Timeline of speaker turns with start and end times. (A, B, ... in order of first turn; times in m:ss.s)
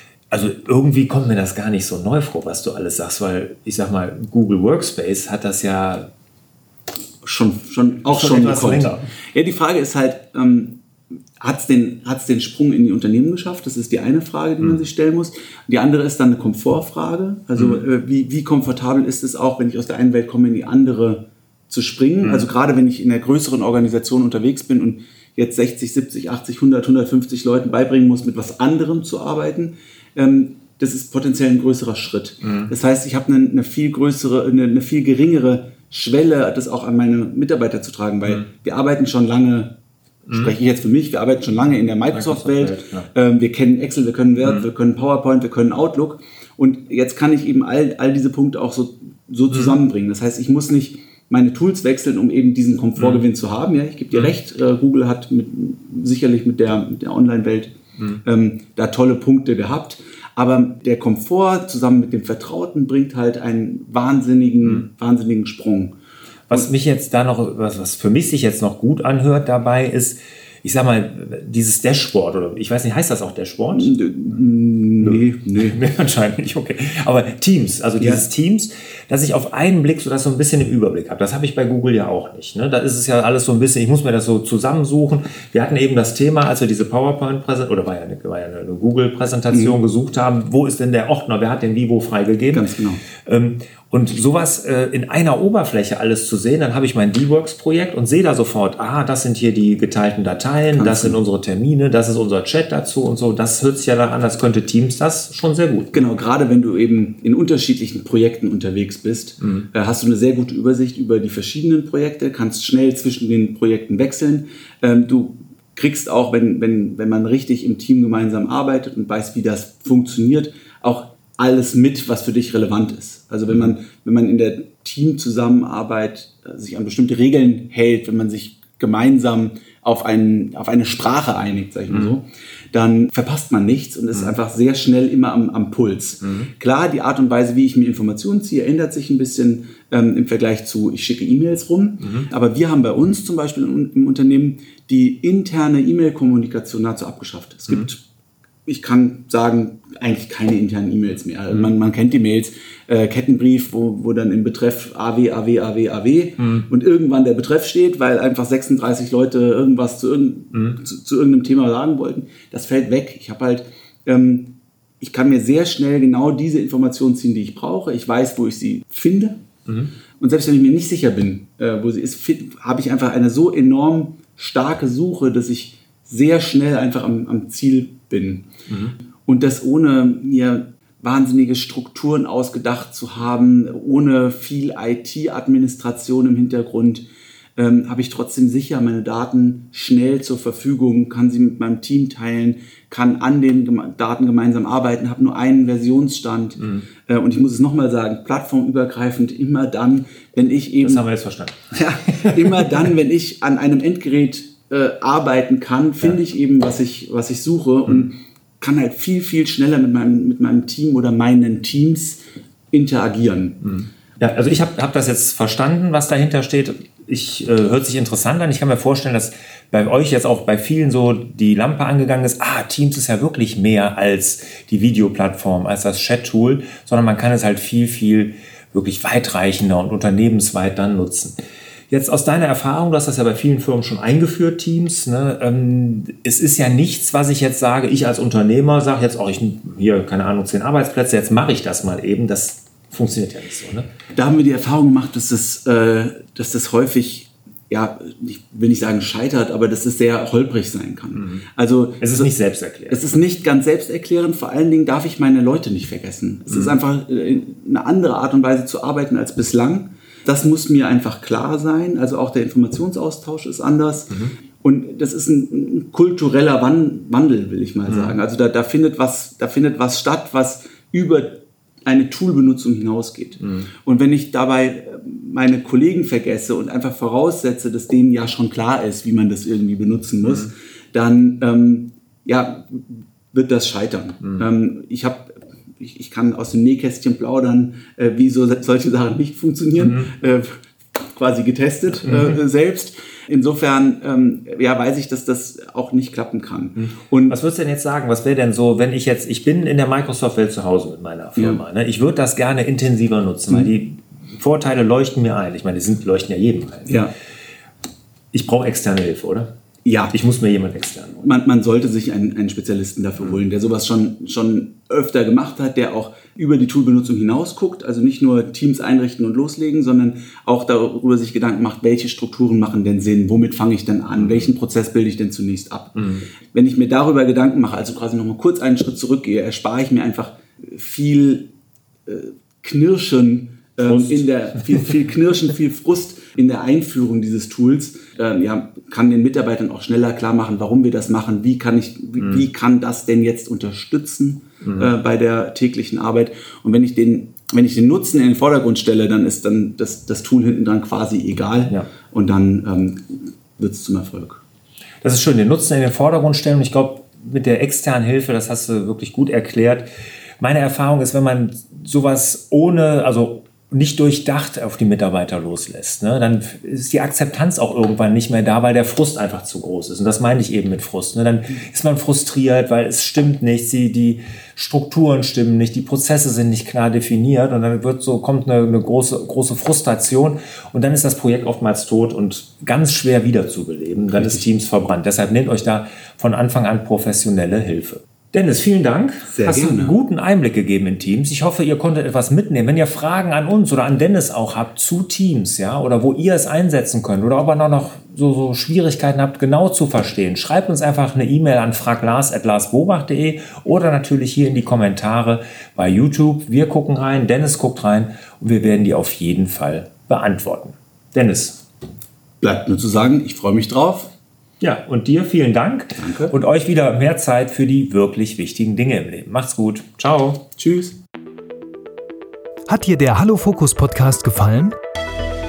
0:00.3-0:06.1 A
0:07.2-0:10.8 B
0:08.1-0:09.0 A
0:11.4-0:39.7 B
0:17.6-0:17.8 A
0:32.4-0:32.7 A
0:40.3-1:06.0 B
0:42.1-0:43.1 A
0:53.0-0:53.2 A
1:06.5-1:14.0 A
1:13.7-1:15.8 B
1:15.0-1:32.7 A
1:18.0-1:18.2 B
1:32.5-1:33.0 B
1:33.2-1:46.0 A
1:40.7-1:41.2 B
1:45.9-2:28.0 B
1:49.4-1:49.7 A
2:16.2-2:16.5 A
2:22.0-2:22.3 A
2:28.7-2:49.4 B
2:36.4-2:36.6 A
2:50.2-2:58.5 B
2:58.7-2:59.0 A
2:59.2-3:21.0 B
3:20.8-3:22.9 A
3:21.7-3:32.2 B
3:32.7-3:33.7 B
3:33.6-3:51.4 A
3:51.9-4:03.9 A
4:04.2-4:12.3 B
4:11.2-4:11.4 A
4:12.0-4:13.1 A
4:12.9-4:57.4 B
4:16.5-4:16.8 A
4:27.9-4:28.2 A
4:33.4-4:33.7 A
4:49.8-4:50.1 A
4:52.0-4:52.4 A
4:56.8-5:07.0 A
5:01.4-5:01.6 B
5:06.9-5:07.1 B
5:08.3-5:09.5 A
5:09.8-5:10.2 B
5:10.1-5:11.3 A
5:11.2-5:31.5 B
5:24.2-5:24.5 A
5:26.0-5:26.2 A
5:32.1-5:54.4 B
5:33.9-5:34.2 A
5:42.2-5:42.4 A
5:44.6-5:44.9 A
5:55.0-5:59.9 A
6:00.4-6:51.6 A
6:24.1-6:24.4 B
6:29.3-6:30.0 B
6:52.4-6:54.1 B
6:54.6-7:00.4 A
6:56.0-6:56.4 B
7:00.6-7:01.0 B
7:02.7-7:04.8 C